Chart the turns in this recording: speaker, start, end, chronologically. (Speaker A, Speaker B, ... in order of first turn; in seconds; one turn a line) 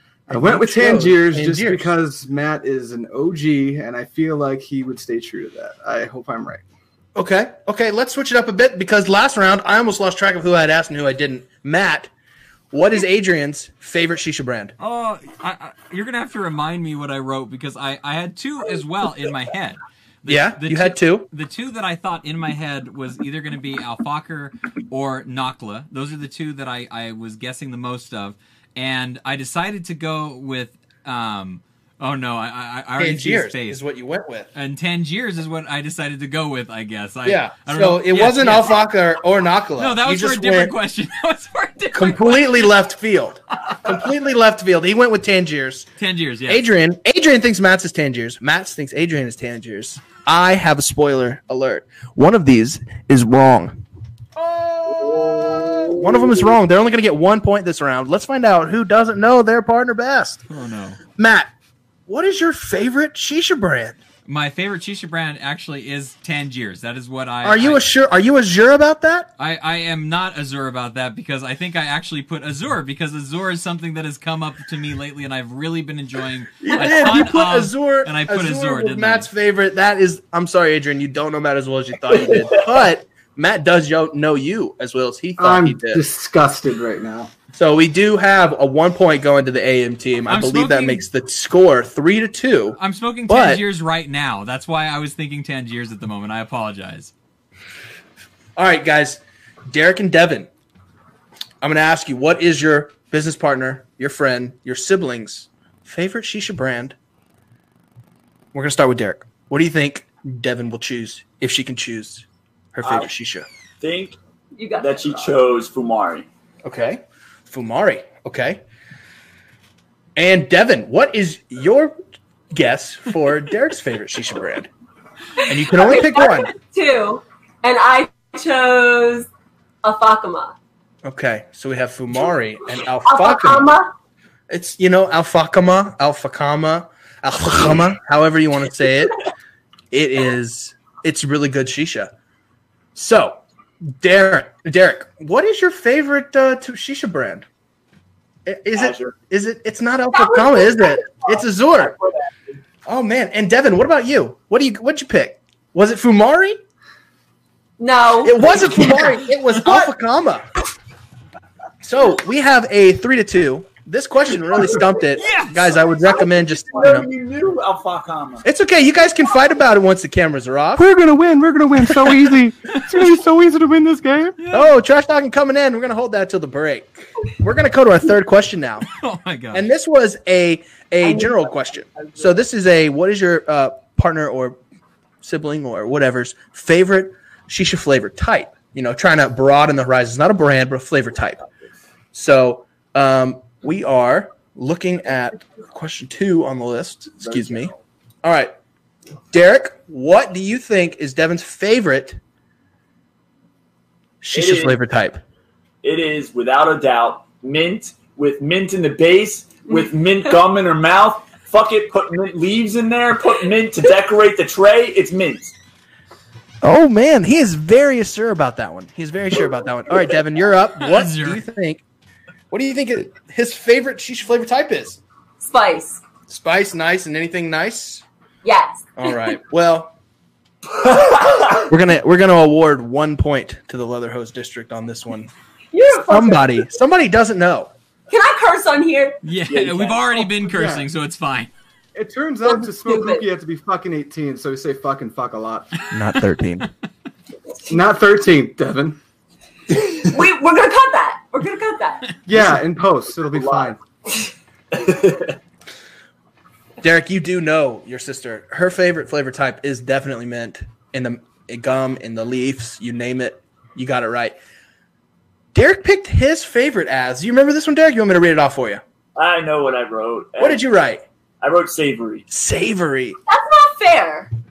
Speaker A: 0.3-6.6
Speaker B: 0.3-1.9
Speaker B: 7.2-12.1
Speaker B: 12.7-14.7
Speaker C: 14.8-33.8
Speaker B: 20.3-21.3
Speaker B: 33.0-34.5
Speaker C: 34.5-38.8
Speaker B: 37.2-40.7
Speaker C: 39.8-42.5
Speaker B: 41.9-45.9
Speaker C: 46.0-46.6
Speaker B: 46.5-53.8
Speaker B: 54.4-60.4
Speaker D: 55.0-56.3
Speaker C: 60.5-61.0
Speaker B: 61.2-61.5
Speaker B: 62.1-64.0
Speaker C: 64.2-67.8
Speaker B: 67.4-69.3
Speaker C: 69.4-79.3
Speaker B: 76.6-86.0
Speaker D: 82.3-82.6
Speaker A: 85.4-87.3
Speaker B: 87.5-93.6
Speaker C: 90.3-91.0
Speaker C: 92.8-97.1
Speaker B: 98.5-100.5
Speaker B: 101.6-107.0
Speaker B: 108.5-113.5
Speaker D: 112.8-113.1
Speaker D: 113.8-114.2
Speaker E: 114.5-115.3
Speaker D: 114.8-116.3
Speaker B: 116.6-118.6
Speaker B: 120.2-122.0
Speaker B: 122.5-124.7
Speaker B: 125.4-126.5
Speaker E: 125.4-129.3
Speaker E: 129.8-130.6
Speaker B: 131.0-133.7
Speaker E: 133.0-133.9
Speaker B: 134.5-139.2
Speaker B: 139.9-142.1
Speaker B: 142.9-147.5
Speaker B: 148.4-151.9
Speaker D: 148.8-149.1
Speaker E: 150.2-151.0
Speaker B: 152.8-156.6
Speaker E: 157.8-159.3
Speaker B: 158.2-160.5
Speaker B: 161.8-167.1
Speaker C: 165.2-165.7
Speaker D: 165.8-168.4
Speaker B: 168.4-170.8
Speaker A: 170.8-174.3
Speaker C: 174.4-174.7
Speaker B: 174.5-178.9
Speaker C: 178.9-179.7
Speaker B: 179.5-184.6
Speaker B: 185.2-191.4
Speaker B: 192.1-197.7
Speaker D: 197.2-197.8
Speaker B: 198.2-198.5
Speaker B: 199.3-202.2
Speaker B: 204.2-205.2
Speaker D: 204.3-204.8
Speaker D: 205.8-215.5
Speaker B: 216.6-221.8
Speaker C: 220.8-221.4
Speaker B: 222.5-225.0
Speaker E: 225.4-226.0
Speaker B: 226.3-228.0
Speaker E: 228.4-228.9
Speaker B: 229.0-229.9
Speaker D: 230.9-231.6
Speaker B: 231.6-235.3
Speaker E: 235.7-236.7
Speaker B: 235.9-237.7
Speaker E: 238.1-239.2
Speaker C: 239.2-241.5
Speaker D: 239.5-240.2
Speaker A: 240.5-240.9
Speaker A: 241.9-245.8
Speaker E: 242.4-243.2
Speaker B: 245.9-246.7
Speaker A: 247.7-249.0
Speaker E: 249.9-252.2
Speaker A: 252.3-253.8
Speaker B: 252.3-252.6
Speaker D: 253.3-253.7
Speaker D: 254.7-255.3
Speaker B: 256.8-264.4
Speaker B: 265.5-268.8
Speaker D: 269.1-270.6
Speaker B: 270.4-271.0
Speaker D: 271.4-272.2
Speaker B: 272.3-273.2
Speaker E: 273.3-274.3